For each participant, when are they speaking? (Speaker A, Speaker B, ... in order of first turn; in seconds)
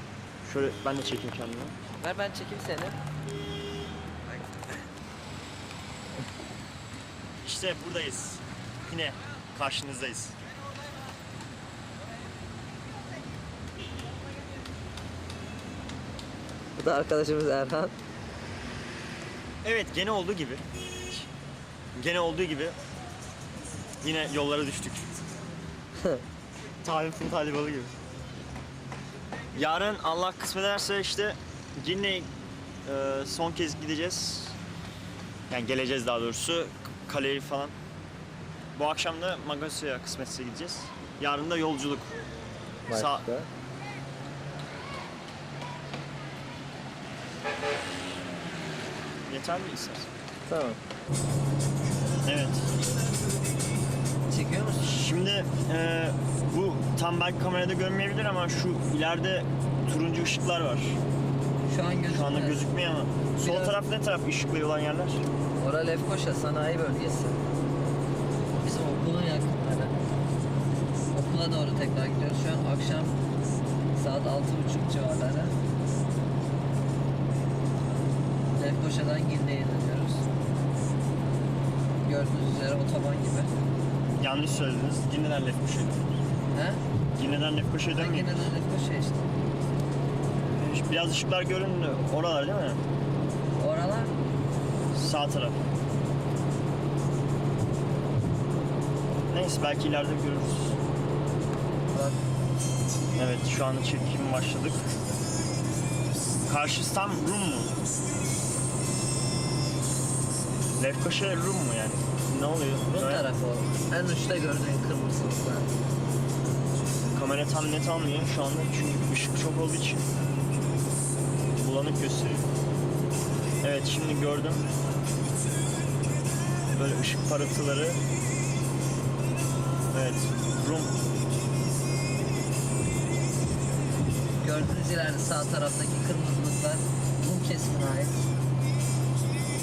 Speaker A: 0.4-1.8, 7.4-10.4, 19.6-21.2, 21.9-22.8, 24.0-25.1, 26.8-27.9, 29.5-32.3, 32.8-34.6, 35.5-37.8, 38.7-42.2, 42.9-43.3, 49.3-50.1, 52.2-52.7, 54.8-61.0, 62.0-65.2, 84.2-86.2, 87.2-88.5, 90.5-92.8, 94.9-95.7, 99.3-100.8, 103.2-105.0, 106.5-107.7, 110.8-113.3, 117.1-120.1, 121.5-122.5, 123.6-124.7, 126.7-128.0, 129.9-130.9
Speaker B: 2.0-3.0, 16.8-17.9, 42.9-43.5, 50.5-50.8, 54.3-54.9, 61.7-62.7, 63.4-63.8, 65.6-67.4, 68.6-70.0, 71.1-73.2, 73.9-75.5, 78.5-80.2, 82.0-83.5, 86.5-86.8, 87.9-89.2, 93.6-94.2, 101.9-102.2, 112.9-115.7, 134.4-138.2